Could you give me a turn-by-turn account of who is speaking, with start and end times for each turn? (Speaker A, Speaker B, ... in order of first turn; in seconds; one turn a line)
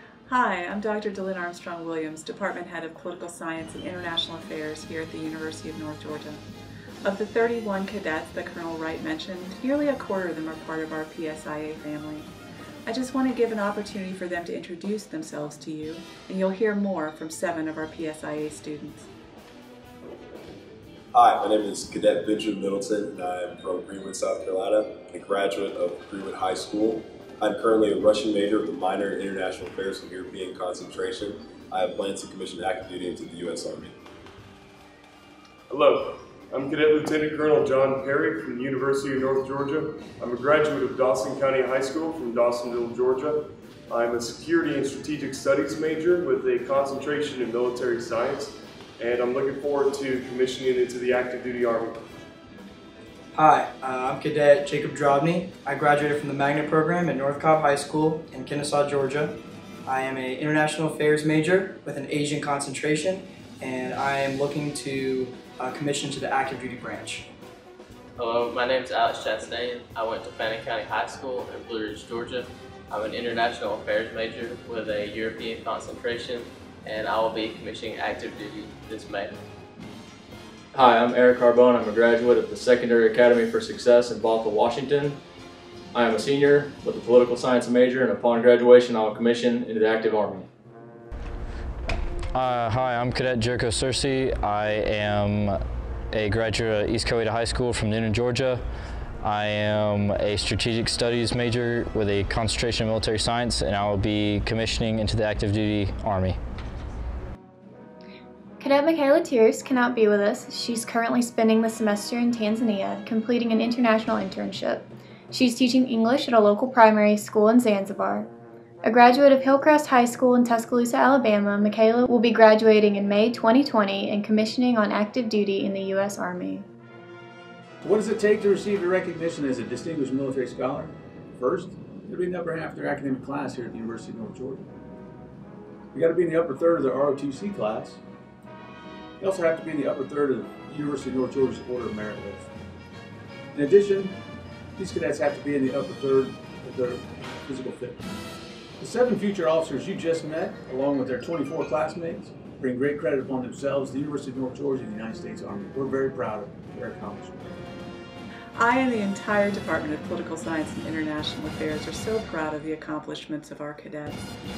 Speaker A: 0.3-6.4
Speaker A: 7.0-12.3
Speaker A: 12.9-19.1
Speaker B: 21.1-34.0
Speaker C: 35.7-52.0
Speaker D: 53.3-67.3
Speaker E: 68.2-79.3
Speaker F: 80.7-85.2
Speaker F: 85.9-90.5
Speaker G: 92.3-95.6
Speaker G: 96.1-98.6
Speaker G: 99.2-106.4
Speaker H: 108.6-118.3
Speaker H: 118.8-126.7
Speaker I: 127.8-134.7
Speaker I: 135.9-138.0
Speaker I: 139.2-142.5
Speaker I: 143.5-144.2
Speaker I: 144.8-148.1
Speaker I: 148.8-157.5
Speaker A: 158.6-164.2